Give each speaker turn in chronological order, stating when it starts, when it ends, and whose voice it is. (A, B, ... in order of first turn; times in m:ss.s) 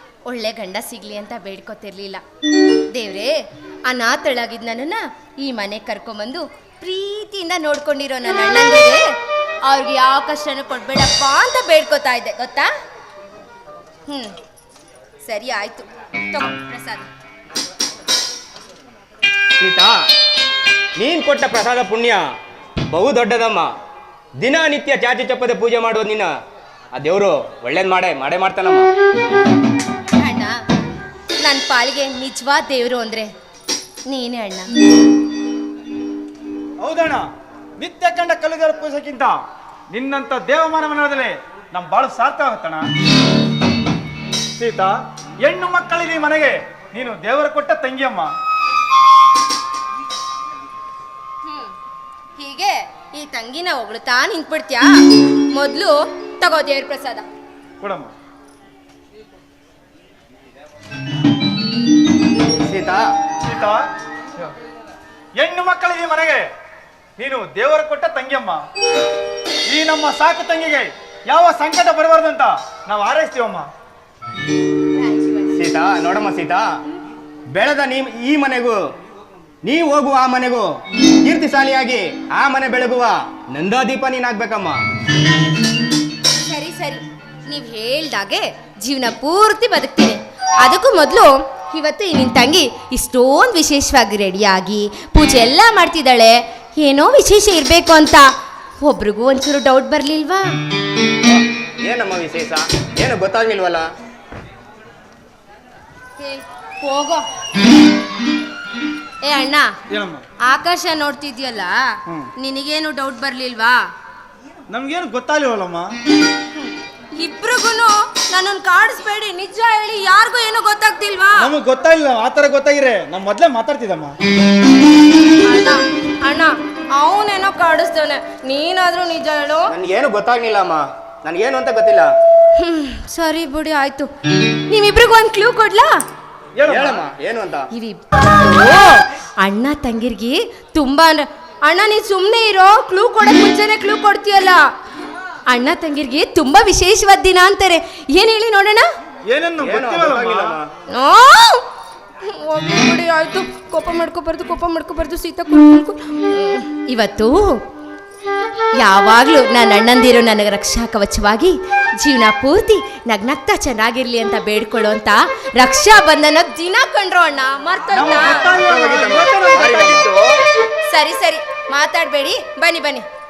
0:00.3-0:02.2 A
0:02.9-0:03.3 A
0:03.9-0:09.0 A
0:09.6-0:12.7 A
0:14.1-0:14.3 A
0:15.2-0:17.1 A
0:19.6-0:20.0 B
0:21.0-0:22.2 B
0:22.9-0:23.7 B
0:24.4-0:26.3 B
0:26.9-0:28.9 B
0:30.2-0:30.6 A
0:31.4-0:33.3 A
0:34.1-0:34.7 A
0:36.8-0:37.3 C
0:37.8-0:39.4 C
0:39.9-0:42.8 C
0:44.6-0:48.3 C
0:51.4-0:51.7 A
0:52.4-0:57.2 A
0:57.8-0:58.1 C
1:02.4-1:03.0 B
1:03.4-1:03.8 C
1:05.4-1:06.5 C
1:07.2-1:08.6 C
1:09.7-1:13.7 C
1:14.9-1:15.5 A
1:15.5-1:16.6 B
1:17.5-1:18.8 B
1:19.6-1:20.6 B
1:21.2-1:24.8 B
1:26.4-1:38.3 A
1:38.8-1:40.5 A
1:41.2-1:43.8 B
1:46.2-1:47.2 A
1:49.2-1:49.7 A
1:49.9-1:50.2 C
1:50.4-1:51.9 A
1:52.4-1:53.8 A
1:54.7-1:55.9 C
1:56.5-2:01.5 A
2:01.4-2:04.2 C
2:05.4-2:09.7 A
2:09.7-2:12.1 B
2:12.6-2:14.1 A
2:14.7-2:15.9 A
2:16.6-2:17.0 C
2:16.7-2:17.7 B
2:17.7-2:24.6 A
2:25.5-2:28.9 A
2:29.3-2:30.6 C
2:29.6-2:30.7 B
2:30.9-2:31.6 A
2:32.2-2:37.6 A
2:38.8-2:48.4 A
2:47.9-2:50.2 C
2:48.2-2:50.1 B
2:50.9-2:53.0 A